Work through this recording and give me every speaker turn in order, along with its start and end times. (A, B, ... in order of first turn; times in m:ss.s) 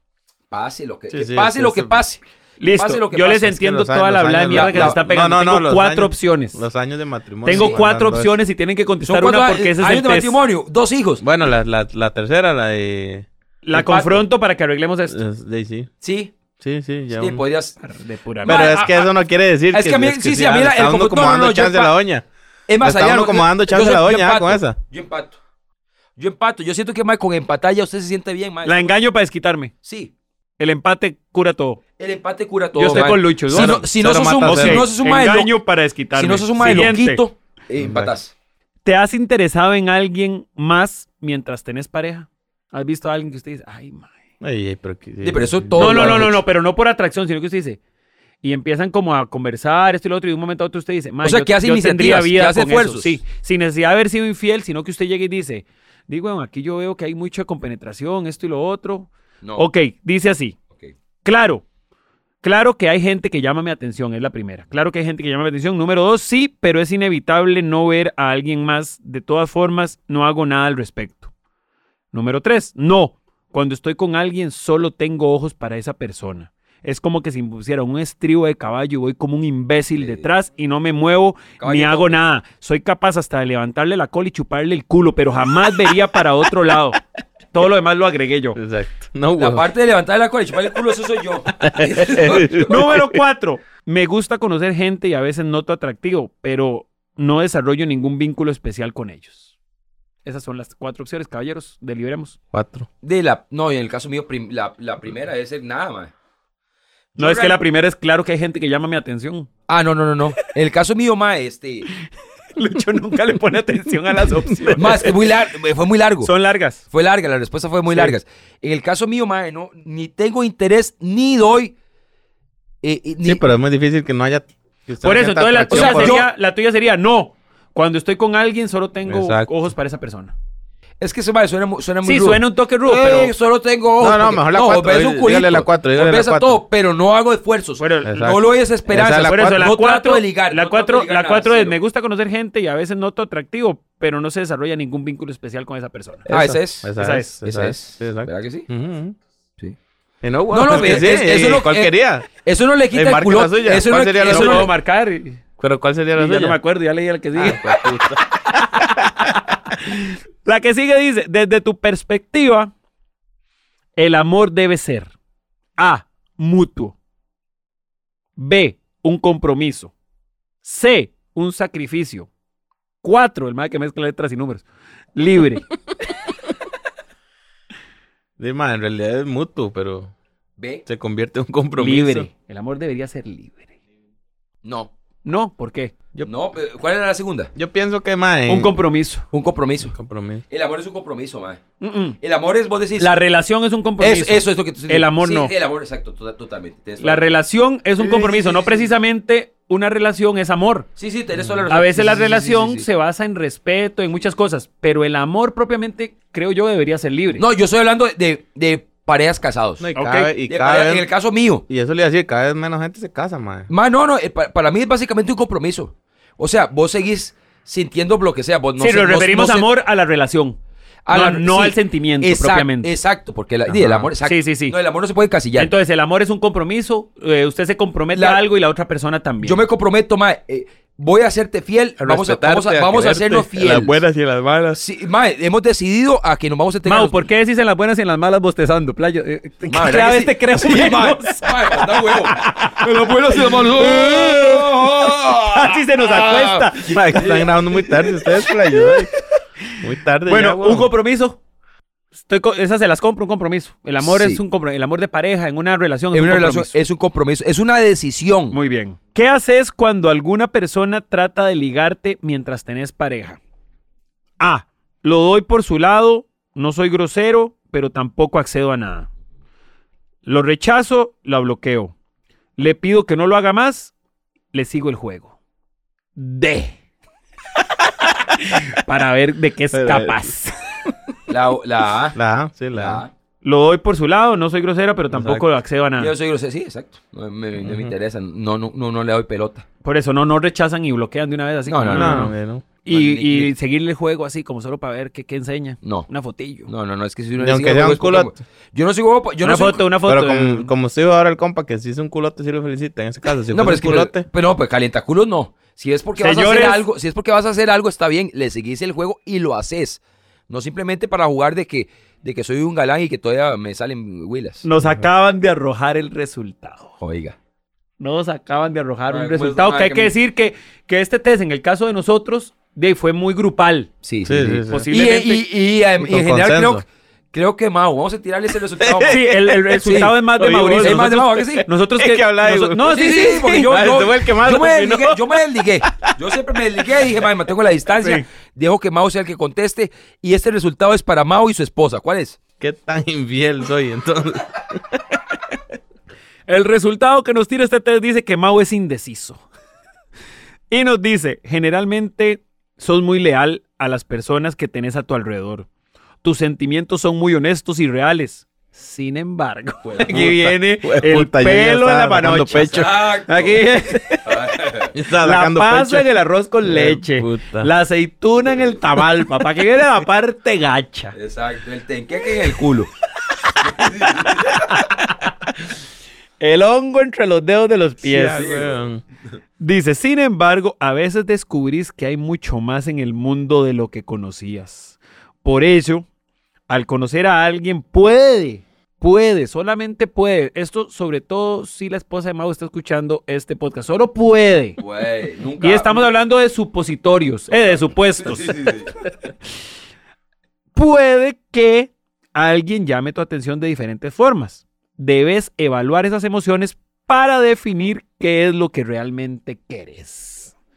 0:00.5-0:03.4 A
0:01.1-0:02.0 B
0:02.6-0:06.6 C
0:03.3-0:08.4 B
0:04.5-0:05.0 A
0:07.4-0:10.4 C
0:07.5-0:07.8 A
0:09.0-0:11.3 A
0:11.2-0:13.3 B
0:13.6-0:15.2 C
0:13.7-0:14.2 A
0:15.1-0:15.9 B
0:16.0-0:16.3 A
0:16.6-0:17.4 B
0:17.1-0:17.8 A
0:17.8-0:18.8 C
0:18.4-0:19.1 A
0:18.4-0:22.2 B
0:19.7-0:21.9 A
0:22.7-0:25.4 A
0:22.8-0:24.8 B
0:26.2-0:28.8 A
0:28.6-0:29.7 C
0:29.8-0:30.1 A
0:30.6-0:31.8 C
0:32.0-0:35.5 A
0:32.8-0:37.2 C
0:32.9-0:34.9 B
0:36.2-0:38.3 A
0:37.8-0:38.1 B
0:38.8-0:44.1 C
0:44.4-0:46.3 B
0:45.2-0:46.4 A
0:45.8-0:47.8 C
0:48.4-1:00.6 C
0:51.2-0:53.2 A
1:01.2-1:01.6 C
1:02.4-1:11.3 C
1:12.1-1:27.0 C
1:20.0-1:20.3 A
1:21.6-1:22.2 A
1:27.5-1:28.6 C
1:28.6-1:29.7 B
1:29.4-1:32.8 A
1:31.6-1:33.2 B
1:32.7-1:39.5 C
1:40.2-1:42.4 C
1:42.5-1:42.9 B
1:43.0-1:46.1 A
1:47.2-1:47.6 A
1:47.2-1:49.5 C
1:49.7-1:51.9 A
1:52.6-1:55.3 C
1:54.5-1:54.9 B
1:54.8-1:56.3 A
1:56.2-1:56.8 C
1:56.9-2:01.8 A
1:57.9-1:58.2 C
2:02.8-2:03.4 A
2:03.2-2:06.2 B
2:05.0-2:10.3 C
2:05.7-2:06.3 A
2:09.1-2:09.5 B
2:11.0-2:21.8 A
2:12.0-2:13.3 C
2:14.0-2:16.6 B
2:17.8-2:18.4 C
2:18.0-2:19.6 B
2:18.9-2:26.3 C
2:26.3-2:29.2 B
2:26.3-2:28.7 A
2:27.0-2:27.4 C
2:30.2-2:32.3 B
2:30.5-2:34.7 A
2:30.7-2:31.0 C
2:32.9-2:34.7 B
2:34.2-2:35.4 C
2:35.6-2:36.6 B
2:36.2-2:37.9 C
2:37.4-2:39.3 B
2:38.5-2:42.7 C
2:44.0-2:45.1 C
2:45.8-2:47.0 C
2:48.4-2:49.9 C
2:50.6-2:52.3 C
2:53.0-2:54.6 C
2:55.2-2:55.7 C
2:58.4-3:00.1 B
3:00.6-3:00.8 A
3:00.9-3:02.3 B
3:01.8-3:03.7 C
3:04.6-3:04.9 A
3:05.2-3:05.9 C
3:06.2-3:07.5 A
3:07.6-3:08.7 B
3:08.5-3:09.3 C
3:09.3-3:10.0 A
3:09.9-3:10.4 B
3:10.5-3:11.7 A
3:11.8-3:12.2 C
3:12.2-3:13.1 A
3:13.0-3:15.5 C
3:14.0-3:17.3 A
3:17.0-3:20.9 C
3:18.0-3:18.9 A
3:21.0-3:22.8 A
3:21.4-3:21.6 B
3:21.7-3:27.4 C
3:27.4-3:29.9 A
3:29.8-3:31.1 B
3:30.0-3:30.3 C
3:30.5-3:31.7 A
3:31.7-3:33.7 B
3:33.7-3:39.7 A
3:38.8-3:40.6 C
3:41.1-3:45.7 A
3:41.1-3:42.9 C
3:43.7-3:44.1 B
3:44.2-3:44.8 C
3:45.6-3:49.6 C
3:48.2-3:48.4 A
3:49.4-3:54.0 A
3:52.0-3:54.8 B
3:54.7-3:57.2 A
3:56.8-4:04.9 C
3:59.7-4:07.9 A
4:05.5-4:07.5 C
4:06.9-4:09.1 B
4:08.7-4:09.0 C
4:09.8-4:10.9 B
4:10.3-4:11.4 C
4:12.2-4:16.8 C
4:14.0-4:14.4 A
4:16.1-4:18.6 A
4:18.5-4:23.4 C
4:24.4-4:29.1 C
4:30.2-4:31.9 C
4:32.6-4:33.9 C
4:34.5-4:35.4 C
4:36.2-4:36.8 C
4:38.4-4:40.6 C
4:39.7-4:40.3 B
4:41.3-4:42.2 A
4:42.2-4:43.0 B
4:42.8-4:43.1 A
4:43.4-4:46.1 C
4:45.1-4:45.4 B
4:46.0-4:49.7 A
4:47.6-4:47.9 B
4:49.8-4:52.3 C
4:51.7-4:52.3 A
4:51.9-4:52.7 B
4:52.8-4:56.7 C
4:52.9-4:53.5 A
4:56.7-4:59.8 A
4:57.4-4:58.4 B
4:59.4-5:00.7 C
5:00.0-5:04.3 B
5:03.5-5:14.6 A
5:06.2-5:06.8 C
5:14.6-5:17.0 C
5:17.0-5:17.4 A
5:18.0-5:23.9 C
5:19.1-5:20.1 A
5:24.0-5:30.2 A
5:24.2-5:24.9 B
5:24.7-5:25.4 C
5:26.0-5:26.8 B
5:28.8-5:36.6 B
5:29.1-5:33.8 C
5:30.8-5:31.7 A
5:32.8-5:42.4 A
5:38.0-5:38.3 C
5:42.6-5:45.0 B
5:46.5-5:49.4 C
5:50.7-5:55.7 C
5:56.2-6:04.3 C
5:59.8-6:00.2 A
6:00.1-6:02.9 B
6:02.7-6:04.9 A
6:04.9-6:06.1 B
6:05.2-6:11.2 C
6:06.6-6:07.7 B
6:11.1-6:12.9 A
6:13.6-6:14.7 A
6:14.5-6:15.1 C
6:16.4-6:18.6 C
6:18.0-6:19.0 B
6:18.3-6:18.8 A
6:19.6-6:26.0 C
6:26.7-6:34.8 C
6:34.8-6:36.1 A
6:35.6-6:38.7 C
6:38.2-6:38.9 A
6:40.8-6:50.5 C